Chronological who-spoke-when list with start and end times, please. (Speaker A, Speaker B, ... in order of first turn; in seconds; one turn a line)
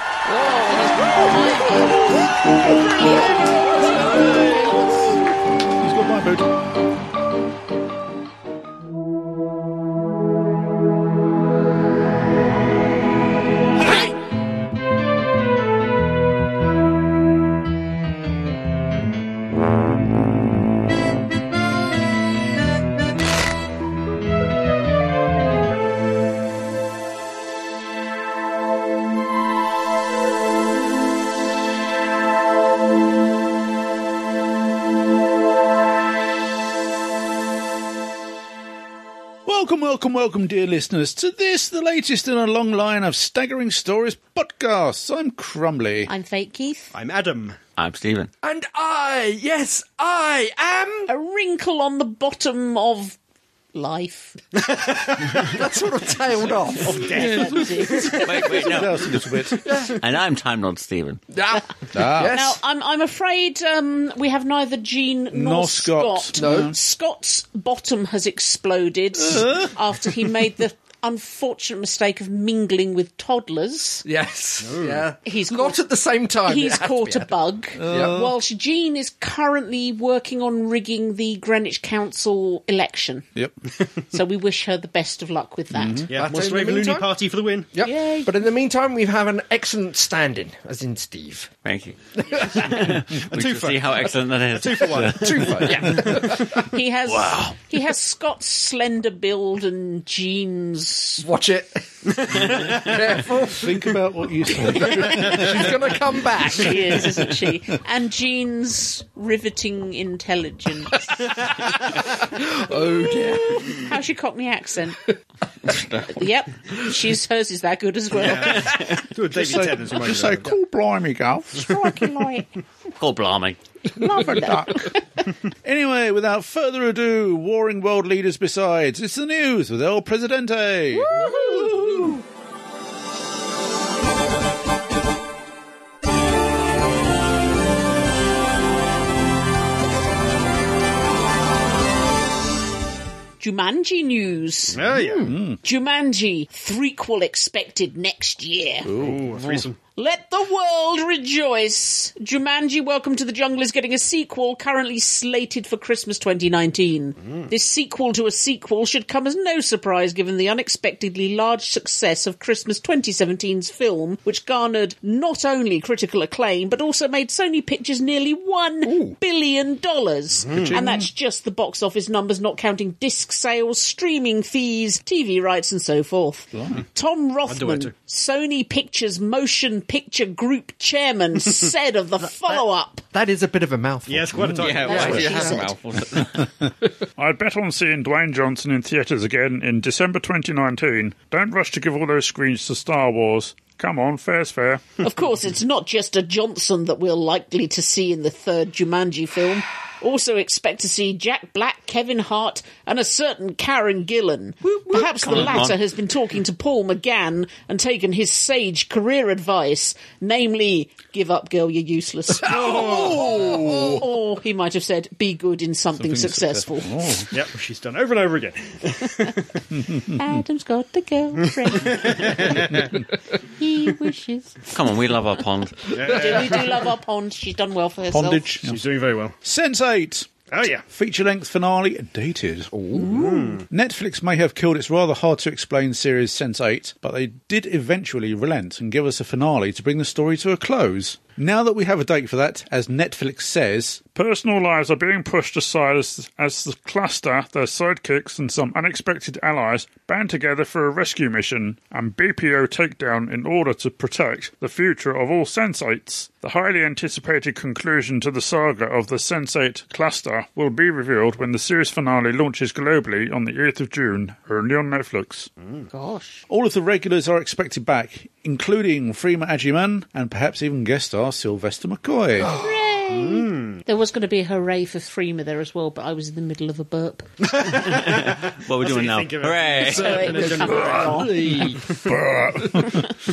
Speaker A: 0.3-1.9
Speaker B: 0.8-5.1
Speaker B: 5.8-6.5
Speaker B: 39.5-46.1
Speaker A: 46.1-46.9
Speaker C: 46.9-47.6
Speaker D: 47.8-48.3
Speaker E: 48.4-51.1
Speaker A: 51.1-53.2
Speaker A: 53.7-54.4
Speaker C: 54.6-55.5
Speaker E: 55.4-57.1
Speaker C: 56.8-58.2
Speaker A: 57.0-58.6
Speaker B: 57.2-57.6
Speaker B: 58.1-59.6
Speaker D: 58.2-59.0
Speaker E: 59.6-60.0
Speaker D: 59.9-61.2
Speaker E: 61.3-62.6
Speaker A: 61.5-74.0
Speaker B: 61.9-62.4
Speaker B: 65.3-66.8
Speaker E: 66.3-66.8
Speaker B: 69.3-69.7
Speaker E: 74.0-77.3
Speaker C: 74.6-75.0
Speaker A: 75.2-75.8
Speaker A: 76.5-83.3
Speaker B: 77.8-78.3
Speaker E: 77.9-78.2
Speaker A: 84.1-86.1
Speaker B: 85.7-86.1
Speaker C: 86.1-87.7
Speaker E: 86.1-87.1
Speaker E: 87.7-91.5
Speaker A: 87.8-88.3
Speaker D: 91.7-96.1
Speaker E: 92.2-92.8
Speaker C: 93.0-95.6
Speaker E: 95.1-96.7
Speaker A: 96.4-101.3
Speaker E: 101.2-104.0
Speaker C: 102.2-103.0
Speaker B: 103.5-105.8
Speaker E: 104.6-107.3
Speaker A: 104.8-105.1
Speaker A: 106.5-111.1
Speaker E: 111.8-113.8
Speaker A: 113.8-115.1
Speaker D: 115.7-116.1
Speaker A: 116.1-118.9
Speaker C: 118.2-120.5
Speaker B: 119.3-121.7
Speaker A: 121.5-122.5
Speaker D: 123.0-123.6
Speaker B: 124.0-125.0
Speaker A: 124.0-125.0
Speaker B: 125.6-132.1
Speaker A: 130.9-132.2
Speaker E: 131.3-131.7
Speaker A: 143.4-144.8
Speaker C: 144.8-145.3
Speaker B: 145.1-145.6
Speaker A: 145.6-148.9
Speaker B: 148.8-149.6
Speaker C: 149.0-149.8
Speaker A: 150.0-183.0
Speaker E: 168.8-169.2
Speaker C: 170.5-170.8
Speaker B: 170.5-171.1
Speaker B: 176.5-176.8
Speaker C: 177.5-177.9
Speaker E: 182.5-185.4
Speaker C: 184.1-185.5
Speaker D: 184.6-186.5
Speaker A: 184.8-185.7
Speaker F: 187.2-194.9
Speaker A: 195.0-217.3
Speaker E: 204.6-205.7
Speaker D: 205.3-205.8
Speaker E: 212.4-214.1
Speaker B: 212.6-214.0
Speaker B: 216.0-217.3
Speaker C: 217.3-219.6
Speaker B: 219.8-220.1
Speaker A: 220.1-224.9
Speaker C: 221.7-222.8
Speaker D: 224.7-225.9
Speaker C: 225.9-226.9
Speaker A: 226.0-228.6
Speaker B: 228.1-228.8
Speaker C: 228.6-229.4
Speaker B: 229.4-230.3
Speaker C: 230.5-230.9
Speaker B: 230.9-232.7
Speaker E: 232.7-233.2
Speaker A: 232.9-233.6
Speaker C: 233.1-233.7
Speaker B: 233.7-244.1
Speaker F: 244.1-265.5
Speaker A: 265.9-266.4
Speaker B: 266.5-272.6
Speaker E: 272.4-272.7
Speaker A: 272.4-277.3
Speaker C: 273.1-273.8
Speaker C: 277.4-281.2
Speaker D: 277.8-280.6
Speaker A: 279.8-281.5
Speaker E: 280.1-281.9
Speaker B: 282.1-283.1